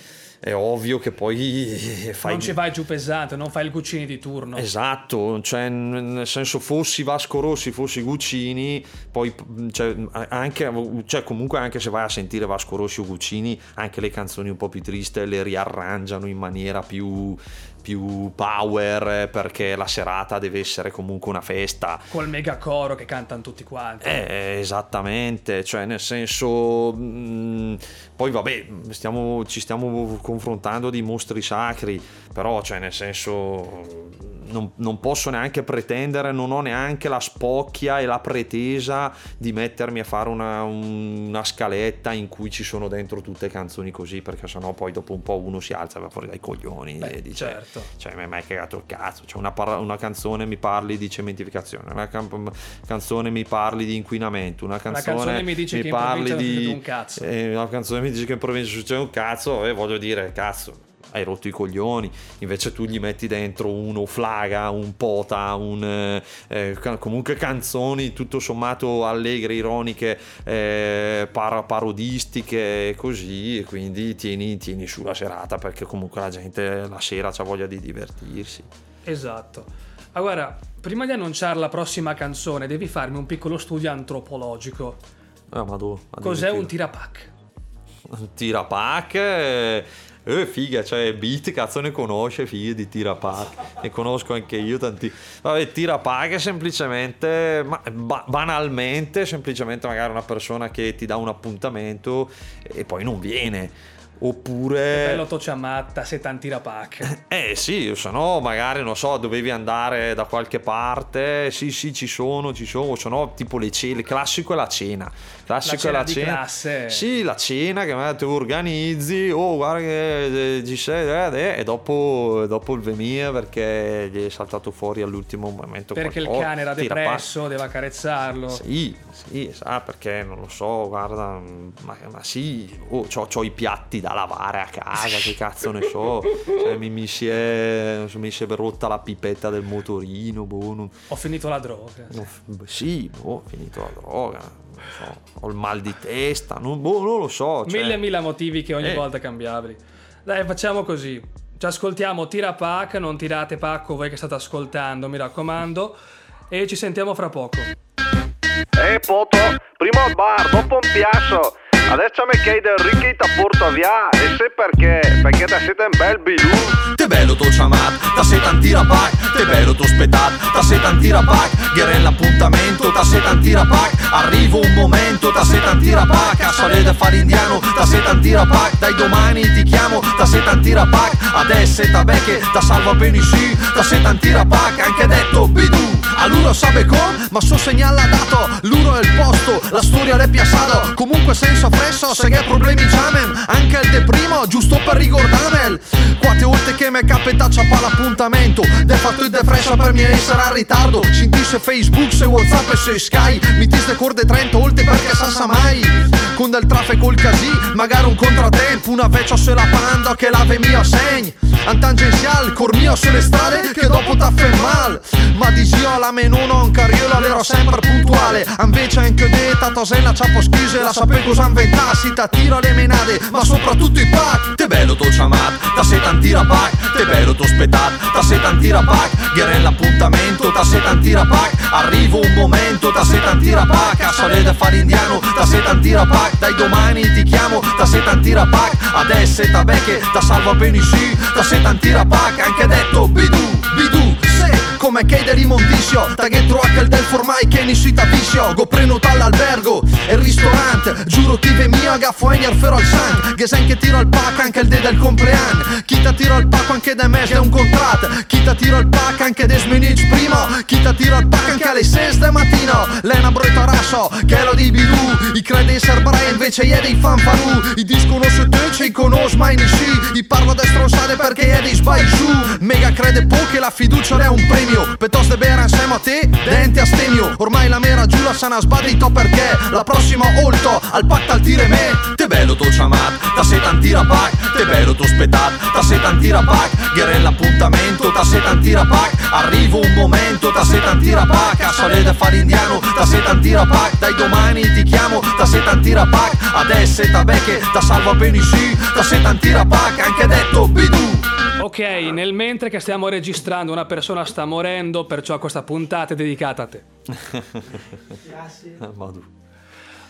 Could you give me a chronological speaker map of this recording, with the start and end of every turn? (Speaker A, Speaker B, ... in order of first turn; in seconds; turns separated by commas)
Speaker A: 0.4-2.6, Speaker B: 2.2-4.7, Speaker A: 4.5-22.1, Speaker B: 22.1-24.2, Speaker A: 24.0-78.7, Speaker B: 47.0-47.9, Speaker B: 54.9-57.3, Speaker B: 79.0-85.0, Speaker A: 85.5-86.7, Speaker B: 86.2-87.3, Speaker A: 88.1-105.2, Speaker B: 104.9-107.1, Speaker A: 107.0-127.3, Speaker B: 115.6-117.0, Speaker B: 125.9-128.6, Speaker A: 128.5-141.0, Speaker B: 141.1-142.3, Speaker A: 142.1-148.1, Speaker B: 147.7-156.0, Speaker A: 148.8-149.1, Speaker B: 156.5-157.7, Speaker C: 158.8-166.8, Speaker D: 166.8-301.3, Speaker B: 301.6-306.8, Speaker A: 307.1-309.3